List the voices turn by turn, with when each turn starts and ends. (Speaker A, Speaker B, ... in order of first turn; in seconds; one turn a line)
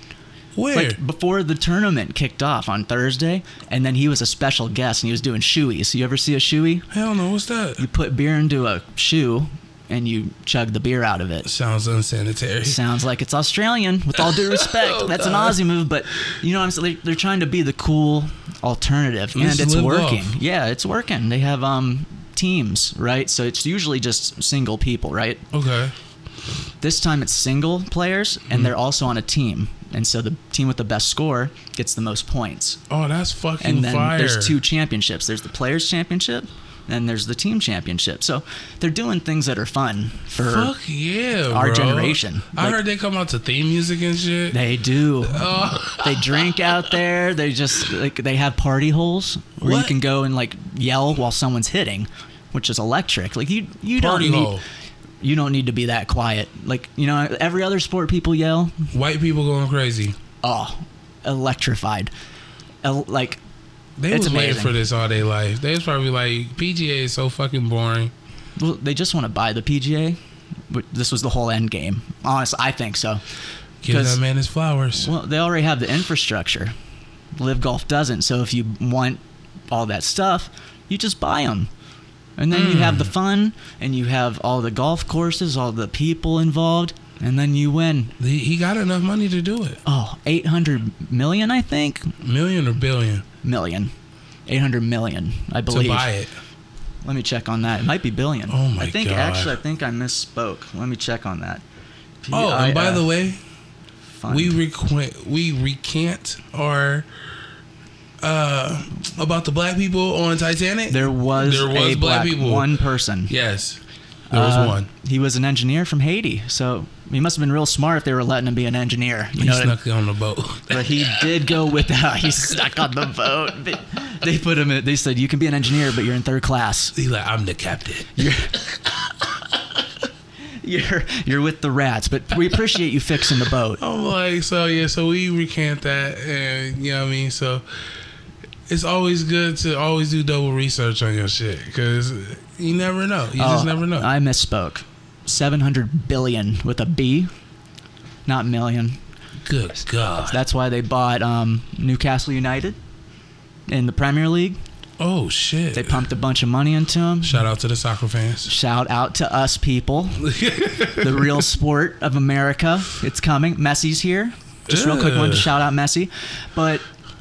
Speaker A: 0.5-1.0
Speaker B: 0.7-6.9
Speaker A: 6.9-7.8
Speaker B: 7.8-11.5
Speaker A: 11.4-12.8
Speaker B: 12.6-25.4
Speaker A: 14.6-15.6
Speaker A: 19.3-20.4
Speaker A: 25.5-25.9
Speaker B: 26.8-32.8
Speaker A: 32.9-34.6
Speaker B: 33.6-40.7
Speaker A: 40.4-44.6
Speaker B: 41.5-42.8
Speaker B: 44.5-54.6
Speaker A: 45.2-46.8
Speaker A: 49.6-49.9
Speaker A: 53.9-54.6
Speaker B: 55.2-58.9
Speaker A: 58.9-60.2
Speaker B: 60.4-62.1
Speaker B: 62.8-63.4
Speaker A: 64.0-68.1
Speaker B: 64.1-64.8
Speaker B: 68.6-70.2
Speaker B: 70.7-73.2
Speaker A: 73.8-75.1
Speaker B: 73.8-74.2
Speaker B: 74.9-76.7
Speaker B: 77.4-79.2
Speaker B: 79.7-81.7
Speaker B: 82.4-88.1
Speaker A: 82.5-83.1
Speaker A: 88.2-89.8
Speaker B: 89.8-92.1
Speaker A: 92.2-93.2
Speaker B: 93.4-93.9
Speaker B: 94.5-96.1
Speaker A: 95.7-96.3
Speaker B: 97.0-101.6
Speaker A: 98.5-99.5
Speaker B: 102.2-103.1
Speaker A: 102.3-103.4
Speaker B: 104.1-104.6
Speaker A: 104.3-107.1
Speaker A: 108.2-114.9
Speaker B: 110.9-113.3
Speaker B: 114.3-119.8
Speaker A: 119.4-121.3
Speaker B: 120.7-126.9
Speaker A: 126.9-128.8
Speaker B: 128.2-128.5
Speaker B: 130.6-133.8
Speaker A: 133.8-137.6
Speaker A: 138.7-144.1
Speaker B: 143.4-147.3
Speaker B: 148.2-149.0
Speaker A: 149.4-150.4
Speaker B: 150.2-152.8
Speaker B: 153.7-154.6
Speaker A: 155.0-156.1
Speaker B: 155.7-157.4
Speaker A: 157.2-158.5
Speaker B: 158.4-160.3
Speaker A: 160.2-161.4
Speaker B: 161.0-166.8
Speaker A: 164.7-165.6